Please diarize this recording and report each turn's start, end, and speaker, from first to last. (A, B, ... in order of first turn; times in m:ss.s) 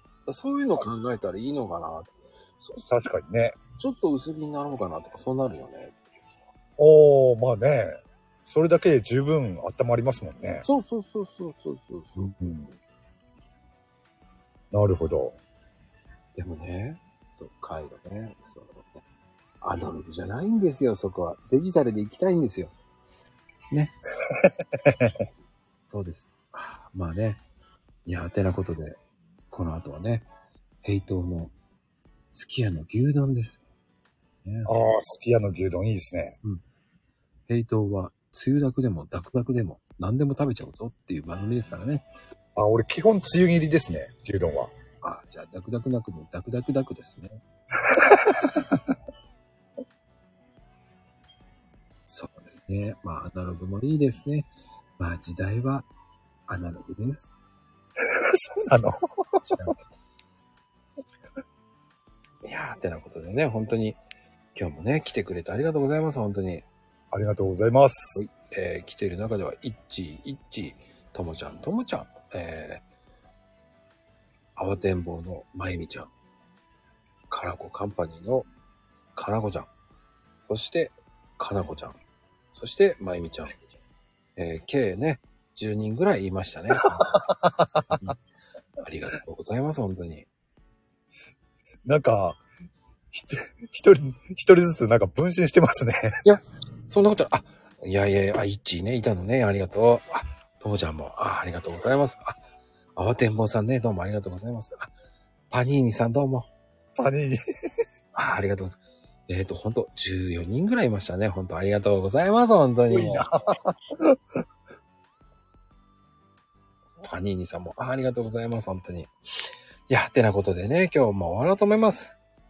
0:00.2-0:02.9 A
0:02.9-0:03.6 B
0:03.8-0:06.2 A
0:06.8-0:10.6 B
0:10.6-0:12.5 A
0:12.4-0:12.7 B
0:14.7-0:15.4 B
0:16.4-0:18.9 A
0:19.6-0:22.7 A
0:24.4-0:25.1 B
0:25.9-0:27.4 A
0:28.0-0:29.0 A
0:29.5-0:30.3 A
0:30.8-0:31.5 A
0:32.3-0:33.6 A
0:34.4-0:34.7 A
0:34.7-0:36.4 B
0:37.5-0:42.0 A
0:42.6-0:44.7 B
0:45.0-0:47.4 A
0:47.9-0:48.6 B
0:52.1-0:55.9 A
0:56.5-0:57.4 A
0:58.1-0:59.5 B
0:59.5-0:59.8 A
1:02.4-1:04.0 A
1:04.5-1:06.7 A
1:07.1-1:08.2 B
1:08.2-1:12.8 A
1:14.6-1:16.1 A
1:17.3-1:18.5 A
1:19.1-1:19.7 A
1:20.4-1:22.0 A
1:22.5-1:23.6 A
1:24.4-1:27.2 A
1:26.8-1:27.9 B
1:28.8-1:30.3 A
1:31.8-1:32.4 B
1:33.1-1:36.1 B
1:36.2-1:42.4 A
1:43.0-1:44.9 A
1:45.5-1:46.5 A
1:47.0-1:47.4 B
1:48.1-1:53.3 A
1:52.9-1:54.2 B
1:57.0-1:59.1 A
1:59.9-2:02.2 A